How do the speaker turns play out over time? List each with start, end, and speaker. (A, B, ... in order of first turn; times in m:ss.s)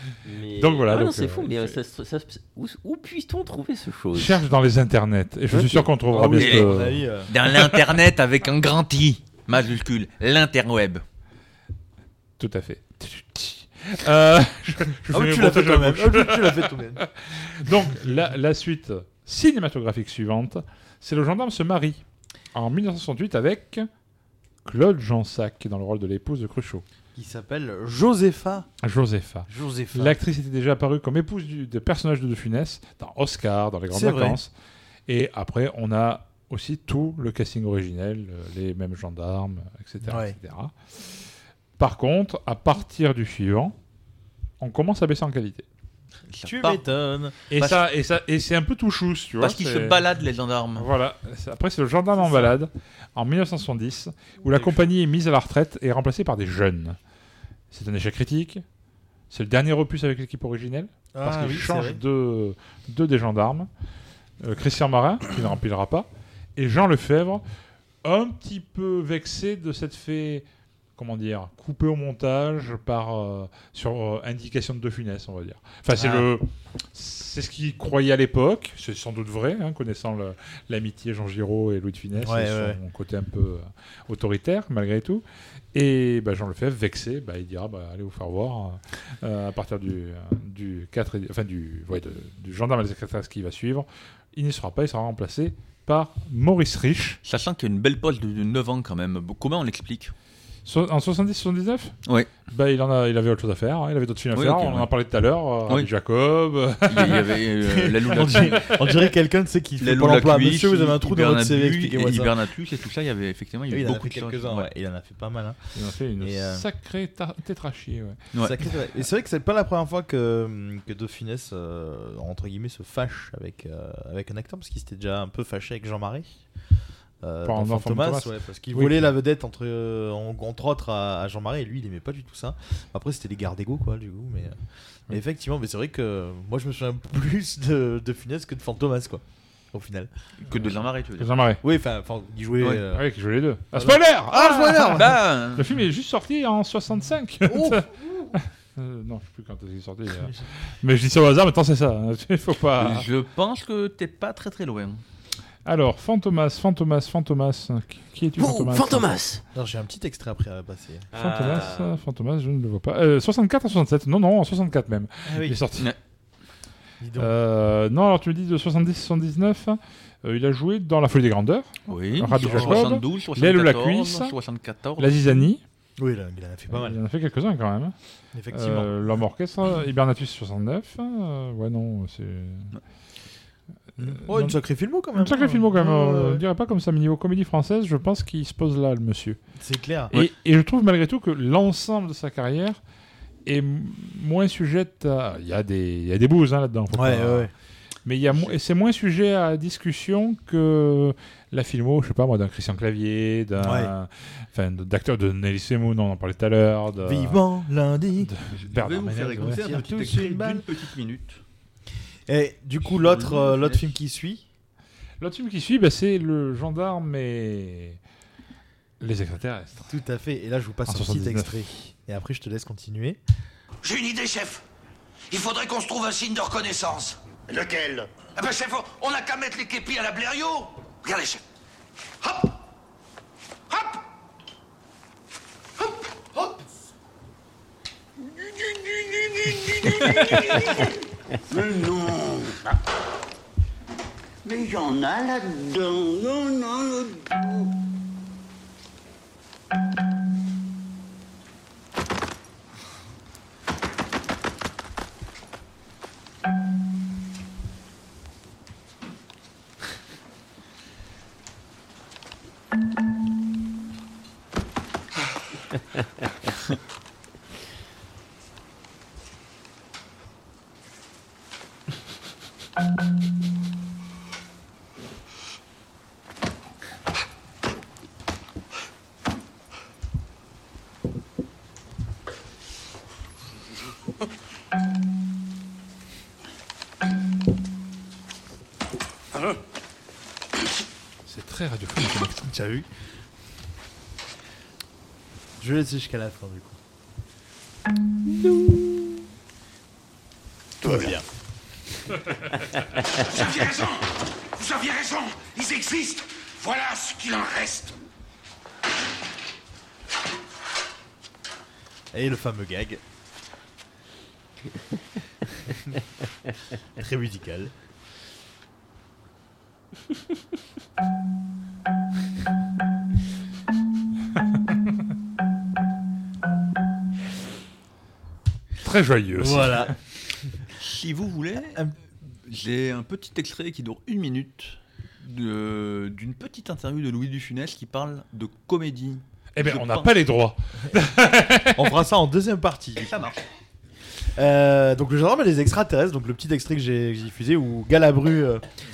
0:00.2-0:04.4 A
0:00.6-0:01.8 B
0:04.2-0:07.8 B
0:05.5-0:05.9 A
0:06.1-0:07.3 C
0:06.3-0:11.0 D
0:12.4-0:22.0 B
0:15.1-0:17.1 C
0:22.5-0:23.9 B
0:24.6-0:26.8 B
0:27.2-0:28.7 C
0:28.8-0:34.5 B
0:29.5-0:30.2 C
0:33.9-0:34.4 C
0:35.1-0:40.7 B
0:40.0-0:40.4 C
0:41.8-0:43.8 B
0:44.6-0:45.6 B
0:46.3-0:46.8 D
0:46.4-0:47.4 C
0:47.5-0:50.0 B
0:47.6-0:47.8 D
0:49.4-0:50.9 D
0:50.8-0:57.0 B
0:52.2-0:52.5 C
0:54.5-0:54.8 C
0:57.7-0:58.6 B
0:59.3-1:03.7 B
1:01.1-1:02.0 C
1:04.4-1:07.4 B
1:08.0-1:10.4 B
1:11.0-1:25.2 B
1:16.0-1:16.3 C
1:22.1-1:22.8 C
1:25.7-1:37.2 B
1:37.2-1:40.1 D
1:40.7-1:47.4 B
1:44.4-1:44.9 D
1:46.9-1:48.7 D
1:47.6-1:52.4 C
1:48.3-1:48.9 B
1:49.8-1:54.7 D
1:53.7-1:55.6 C
1:55.8-1:58.2 B
1:56.2-1:56.7 C
1:58.4-2:06.4 C
2:07.2-2:14.6 C
2:07.4-2:09.1 B
2:15.1-2:20.1 C
2:20.5-2:21.4 D
2:21.2-2:21.6 B
2:21.6-2:23.1 C
2:22.9-2:33.1 B
2:23.7-2:25.2 C
2:24.7-2:25.7 D
2:27.4-2:28.4 C
2:30.2-2:30.4 C
2:32.8-2:35.0 D
2:35.6-2:39.2 B
2:38.4-2:39.4 A
2:39.5-2:41.1 C
2:41.1-2:42.0 A
2:41.2-2:45.9 B
2:45.3-2:45.6 C
2:47.0-2:47.3 C
2:47.2-2:54.3 B
2:51.9-2:55.5 D
2:52.3-2:52.9 C
2:55.0-2:55.6 B
2:56.0-2:57.0 C
2:56.7-2:57.9 B
2:58.3-2:58.9 C
2:58.5-3:02.7 B
3:04.0-3:06.4 C
3:04.3-3:04.6 B
3:05.2-3:09.4 B
3:09.6-3:10.2 C
3:10.1-3:12.8 B
3:13.5-3:17.5 B
3:16.9-3:17.5 C
3:18.1-3:27.4 B
3:23.6-3:23.9 C
3:27.0-3:28.3 C
3:28.2-3:29.8 B
3:28.5-3:31.4 D
3:29.4-3:30.7 C
3:32.3-3:34.4 C
3:32.9-3:33.8 D
3:35.2-3:38.0 B
3:39.0-3:39.9 B
3:39.9-3:43.2 C
3:40.9-3:41.6 B
3:43.8-3:44.6 E
3:45.3-3:47.2 E
3:47.5-3:48.0 F
3:48.4-3:51.4 E
3:52.2-3:52.5 E
3:53.7-3:54.0 E
4:00.2-4:00.6 F
4:01.5-4:02.6 F
4:04.4-4:07.5 F
4:51.3-4:52.5 B
4:52.4-4:52.9 C
4:55.6-4:56.8 C
4:58.4-4:58.9 A
5:00.8-5:01.2 C
5:03.1-5:08.0 E
5:12.1-5:13.0 C
5:17.0-5:17.7 C
5:28.8-5:30.0 B
5:29.4-5:30.0 C
5:30.8-5:31.9 D
5:32.5-5:40.1 D
5:39.6-5:41.9 B
5:41.8-5:43.1 C
5:43.0-5:43.4 D
5:44.4-5:48.6 C